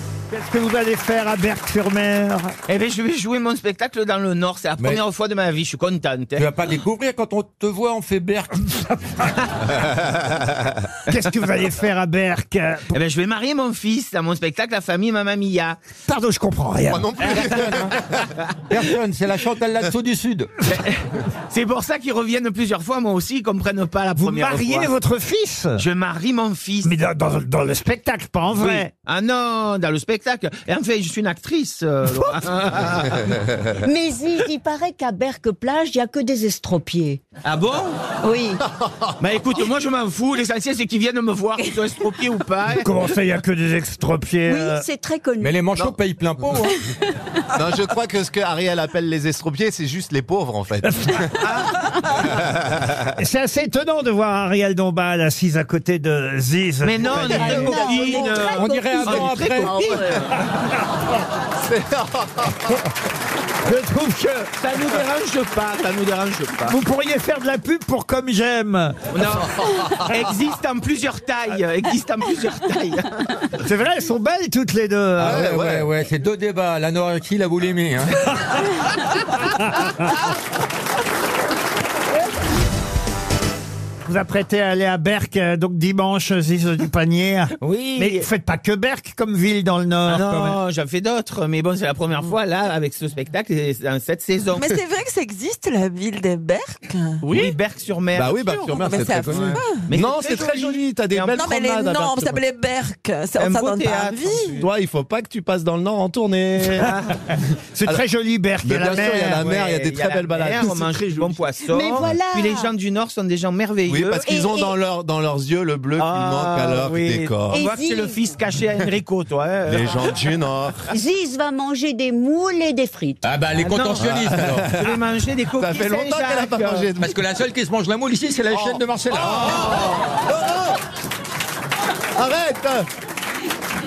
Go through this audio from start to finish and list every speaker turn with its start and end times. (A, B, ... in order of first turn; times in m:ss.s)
0:00.3-0:02.5 A
0:02.7-0:06.5 B
0:06.4-0:09.3 C
0:11.1-0:13.0 A
0:12.9-0:15.8 B
0:16.1-0:17.6 A
0:16.9-0:18.3 D
0:17.3-0:17.9 C
0:18.7-0:20.5 C
0:20.7-0:24.9 B
0:24.2-0:25.8 A
0:25.8-0:26.9 B
0:26.8-0:28.9 A
0:28.6-0:33.4 B
0:32.1-0:32.4 A
0:33.8-0:37.2 E
0:37.4-0:38.1 B
0:38.2-0:38.6 E
0:39.2-0:42.9 B
0:42.8-0:44.9 A
0:44.5-0:45.6 E
0:45.4-0:46.8 C
0:47.5-0:51.4 D
0:50.8-0:51.4 A
0:51.4-0:51.7 B
0:52.2-0:52.6 D
0:53.1-0:57.9 A
0:56.8-1:00.3 B
0:57.3-1:00.3 E
0:57.5-1:00.0 C
1:01.6-1:02.8 D
1:03.6-1:04.5 A
1:04.6-1:06.8 B
1:06.6-1:09.0 A
1:09.1-1:13.5 B
1:09.6-1:10.0 D
1:13.6-1:15.6 A
1:15.2-1:18.3 C
1:15.2-1:15.9 D
1:19.4-1:19.9 A
1:24.0-1:30.6 A
1:27.6-1:28.3 B
1:30.1-1:34.8 B
1:34.5-1:37.4 F
1:37.2-1:41.4 B
1:38.1-1:42.4 D
1:38.7-1:39.9 F
1:41.3-1:44.6 F
1:43.4-1:44.6 B
1:44.5-1:47.0 D
1:46.8-1:47.1 B
1:47.7-1:49.4 A
1:48.6-1:52.1 D
1:49.1-1:54.3 B
1:51.7-1:52.7 E
1:53.9-1:57.6 D
1:54.3-1:54.7 E
1:56.0-2:00.1 B
1:57.5-1:58.2 E
1:59.7-2:00.9 D
2:00.9-2:03.2 E
2:03.2-2:04.7 C
2:03.6-2:04.1 B
2:04.0-2:05.0 D
2:04.7-2:06.9 B
2:05.5-2:07.2 D
2:07.0-2:09.7 C
2:08.5-2:10.8 D
2:12.2-2:12.9 D